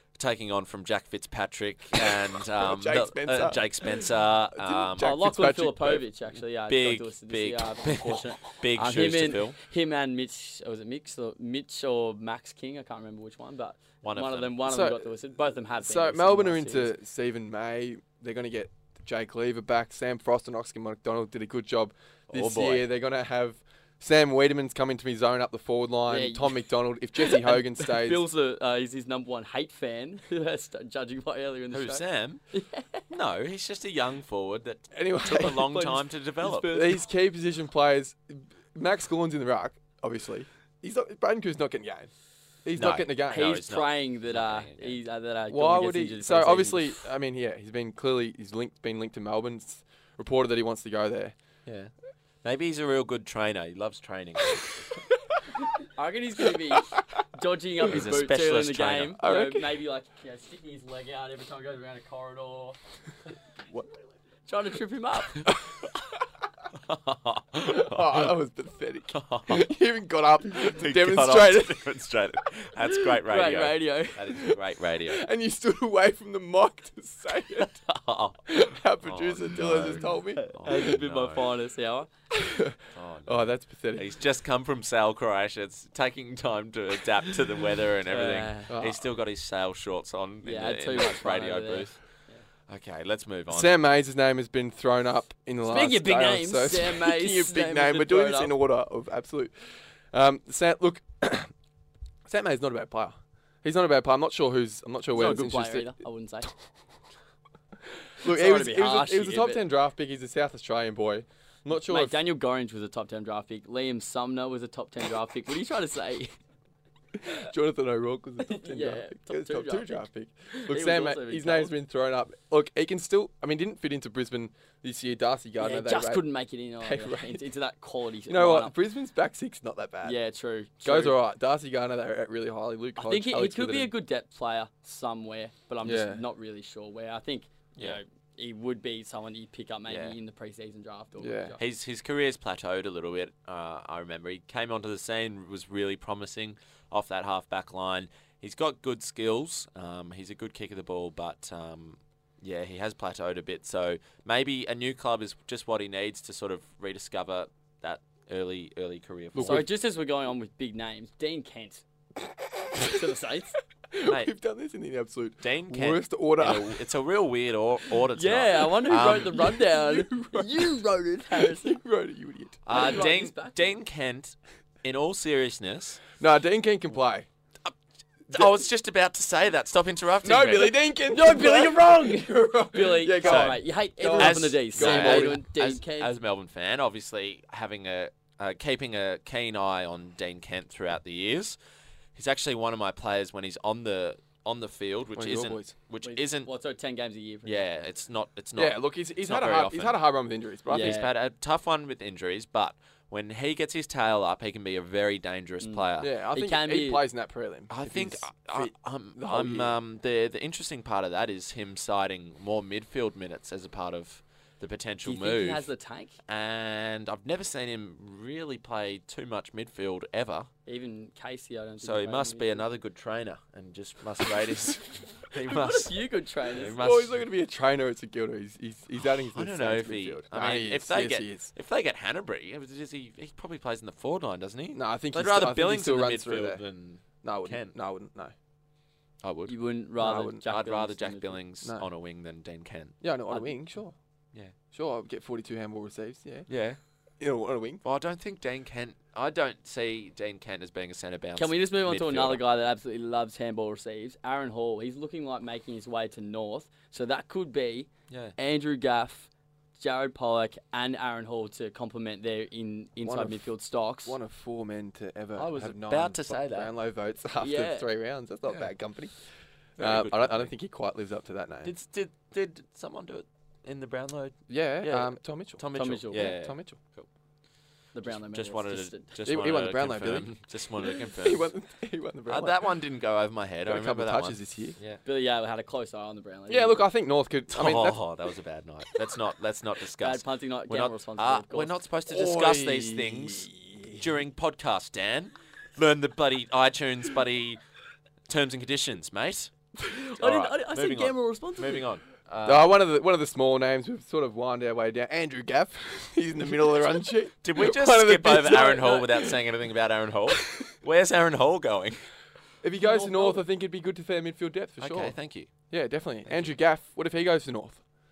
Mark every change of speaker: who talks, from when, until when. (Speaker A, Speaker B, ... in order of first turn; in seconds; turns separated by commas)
Speaker A: 0.1-5.2, Speaker B: 2.6-6.0, Speaker C: 5.0-16.9, Speaker A: 6.7-9.6, Speaker A: 14.0-14.5, Speaker B: 14.6-15.1, Speaker B: 15.8-28.2, Speaker A: 22.3-22.9, Speaker C: 26.1-26.6, Speaker C: 27.2-33.0, Speaker A: 31.7-32.4, Speaker A: 33.1-36.7, Speaker B: 34.9-35.7, Speaker C: 35.5-37.0, Speaker B: 36.7-42.1, Speaker B: 42.6-43.5, Speaker A: 42.8-45.0, Speaker C: 43.3-47.0, Speaker B: 45.5-51.4, Speaker A: 51.6-51.9, Speaker A: 52.4-55.0, Speaker C: 55.8-62.8, Speaker A: 57.8-59.2, Speaker B: 59.2-59.7, Speaker C: 64.5-65.5, Speaker B: 65.5-65.9, Speaker A: 66.8-68.3, Speaker B: 67.6-71.8, Speaker A: 69.1-69.6, Speaker A: 70.5-75.2, Speaker C: 73.2-74.5, Speaker B: 75.0-77.8, Speaker A: 77.6-81.5, Speaker B: 78.5-80.4, Speaker C: 80.4-82.1, Speaker B: 82.3-84.1, Speaker A: 82.9-92.0, Speaker C: 88.1-88.7, Speaker B: 88.7-89.0, Speaker C: 90.4-92.4, Speaker A: 92.7-93.7, Speaker B: 93.5-101.5, Speaker C: 95.6-98.5, Speaker B: 102.2-106.0, Speaker C: 105.1-106.5, Speaker B: 108.2-112.2, Speaker C: 108.2-109.6, Speaker C: 111.8-116.3, Speaker B: 117.1-126.2, Speaker C: 118.4-121.7, Speaker C: 125.6-128.7, Speaker B: 126.8-127.4, Speaker B: 128.3-130.2, Speaker C: 130.0-131.2, Speaker B: 130.8-133.9, Speaker C: 133.0-141.6, Speaker B: 135.8-136.2, Speaker A: 139.9-140.1, Speaker B: 141.2-141.6, Speaker A: 141.6-159.7, Speaker B: 159.3-159.7, Speaker C: 159.4-161.8, Speaker B: 162.7-162.9, Speaker C: 162.8-163.6, Speaker B: 163.9-166.8, Speaker A: 164.0-164.3, Speaker A: 165.4-169.5, Speaker C: 168.2-171.8, Speaker B: 169.7-170.7, Speaker B: 171.3-173.0, Speaker A: 172.6-176.0, Speaker C: 172.7-173.7, Speaker B: 176.2-177.3, Speaker A: 178.3-180.8, Speaker B: 180.2-185.4, Speaker C: 181.1-186.1, Speaker A: 183.2-191.6, Speaker A: 192.1-196.5, Speaker B: 195.2-195.7, Speaker C: 196.0-197.6, Speaker A: 197.4-200.0, Speaker B: 198.6-201.1, Speaker C: 200.7-201.1, Speaker A: 200.7-206.1, Speaker C: 205.6-207.0, Speaker B: 206.0-209.7, Speaker A: 207.7-215.7, Speaker C: 215.0-216.2, Speaker A: 216.3-220.5, Speaker C: 220.7-222.6, Speaker A: 221.8-226.0, Speaker C: 225.5-226.8, Speaker A: 226.5-227.2, Speaker B: 226.7-231.5, Speaker A: 229.3-237.7, Speaker B: 234.7-236.6, Speaker B: 237.2-238.3, Speaker A: 239.2-239.5, Speaker C: 239.5-241.4, Speaker B: 240.0-240.4, Speaker A: 240.4-243.0, Speaker B: 243.0-243.9, Speaker B: 244.7-246.5, Speaker A: 246.5-246.8, Speaker B: 247.2-247.8, Speaker A: 247.8-252.4, Speaker C: 251.3-264.1, Speaker A: 258.1-258.3, Speaker B: 263.0-263.5, Speaker B: 264.0-269.1, Speaker A: 265.4-266.7, Speaker C: 267.4-267.9, Speaker A: 269.8-270.5, Speaker B: 269.8-271.7, Speaker A: 271.6-277.1, Speaker B: 274.5-276.8, Speaker C: 275.7-276.4, Speaker C: 277.9-279.1, Speaker A: 278.1-281.5, Speaker B: 279.2-280.3, Speaker B: 281.1-282.7, Speaker A: 282.3-285.0, Speaker B: 283.6-284.8, Speaker C: 285.0-286.8, Speaker B: 286.5-288.0, Speaker A: 287.5-297.6, Speaker C: 290.0-291.7, Speaker B: 292.1-294.1, Speaker A: 298.3-299.5, Speaker C: 299.8-301.9, Speaker A: 300.2-302.7, Speaker B: 302.4-309.2, Speaker A: 307.4-312.0, Speaker B: 312.6-315.1, Speaker C: 312.8-313.4, Speaker A: 314.8-315.5, Speaker B: 315.7-317.8